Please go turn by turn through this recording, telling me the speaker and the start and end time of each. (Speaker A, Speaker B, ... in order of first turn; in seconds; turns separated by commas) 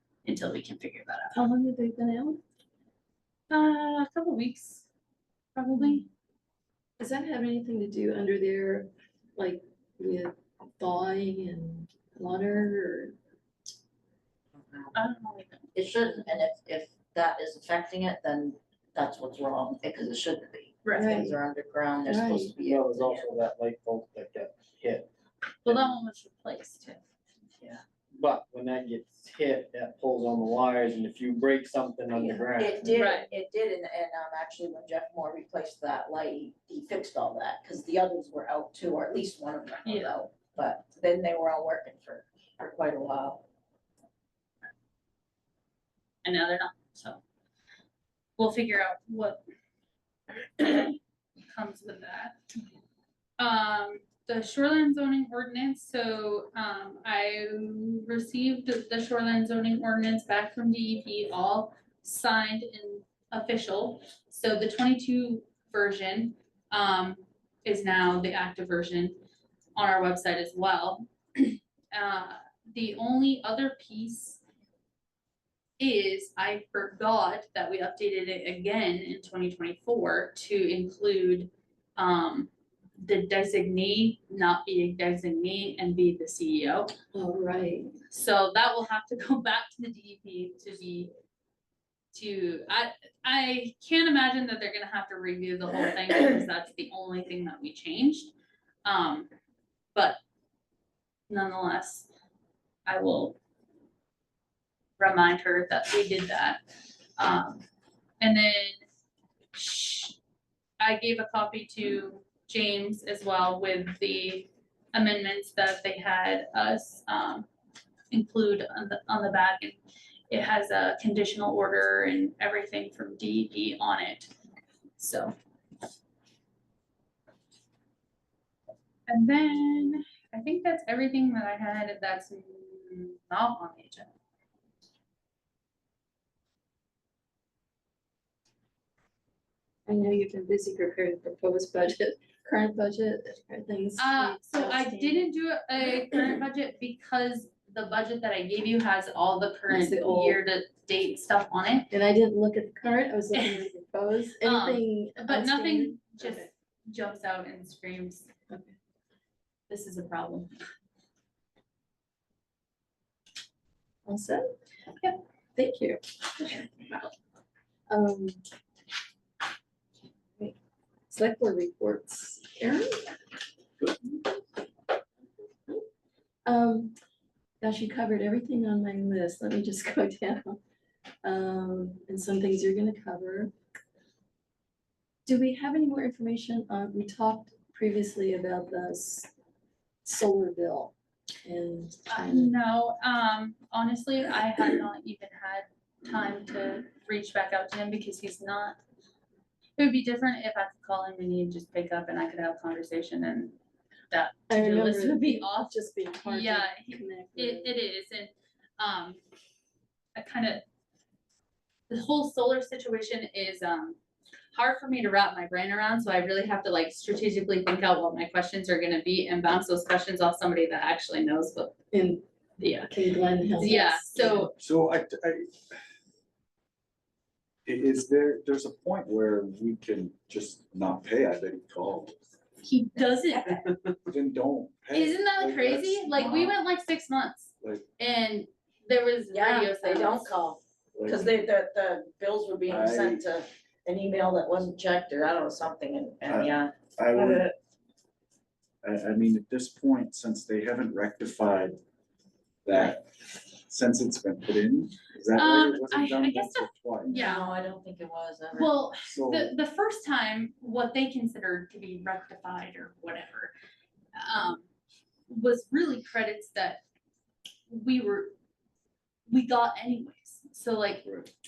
Speaker A: 0.2-1.3, Speaker B: 1.3-2.4, Speaker A: 3.5-4.9, Speaker A: 5.5-6.0, Speaker B: 5.7-6.0, Speaker B: 7.0-13.1, Speaker C: 14.6-14.9, Speaker A: 14.9-15.7, Speaker C: 15.7-23.3, Speaker A: 20.8-21.2, Speaker B: 20.9-21.4, Speaker B: 22.1-22.5, Speaker D: 22.6-25.1, Speaker A: 25.6-27.0, Speaker D: 25.6-25.9, Speaker D: 28.1-33.0, Speaker C: 32.1-43.4, Speaker A: 33.0-33.3, Speaker A: 39.8-40.1, Speaker A: 46.2-47.2, Speaker A: 48.4-49.4, Speaker A: 50.6-50.9, Speaker A: 51.5-52.4, Speaker A: 53.4-69.2, Speaker A: 69.7-74.4, Speaker A: 75.8-86.9, Speaker B: 87.1-87.9, Speaker A: 88.1-91.1, Speaker A: 92.1-98.3, Speaker A: 98.8-99.3, Speaker A: 101.3-102.1, Speaker A: 102.8-103.4, Speaker A: 105.0-106.6, Speaker A: 107.2-107.6, Speaker A: 108.2-108.8, Speaker A: 109.5-110.2, Speaker A: 110.8-117.5, Speaker A: 118.1-119.8, Speaker A: 120.3-124.3, Speaker A: 125.0-125.3, Speaker A: 129.1-134.1, Speaker B: 139.9-145.3, Speaker A: 144.0-151.9, Speaker B: 149.7-150.4, Speaker B: 151.9-156.5, Speaker A: 153.3-153.7, Speaker A: 154.4-158.3, Speaker B: 158.5-158.7, Speaker A: 159.7-160.5, Speaker B: 164.1-164.5, Speaker B: 165.6-167.1, Speaker B: 167.9-168.4, Speaker B: 171.1-173.1, Speaker B: 176.4-176.9, Speaker B: 177.6-180.6, Speaker B: 181.2-183.5, Speaker B: 185.2-189.3, Speaker B: 190.0-192.6, Speaker A: 192.1-198.8, Speaker A: 199.8-203.6, Speaker A: 204.1-209.2, Speaker B: 204.5-207.8, Speaker A: 210.2-210.6, Speaker A: 211.9-214.0, Speaker A: 214.5-221.7, Speaker B: 221.9-224.5, Speaker A: 222.6-222.9, Speaker A: 223.6-224.5, Speaker E: 224.5-225.6, Speaker E: 227.6-232.2, Speaker A: 232.6-233.6, Speaker E: 233.9-236.5, Speaker A: 234.9-240.3, Speaker E: 237.6-237.9, Speaker C: 239.3-247.5, Speaker E: 240.9-241.3, Speaker E: 242.7-243.2, Speaker E: 246.2-247.4, Speaker E: 248.8-251.8, Speaker E: 252.6-257.1, Speaker A: 255.3-257.5, Speaker C: 257.0-258.7, Speaker A: 258.5-263.5, Speaker E: 259.1-259.6, Speaker A: 264.1-264.6, Speaker A: 265.3-266.8, Speaker A: 267.7-268.3, Speaker A: 269.3-271.0, Speaker E: 271.0-271.3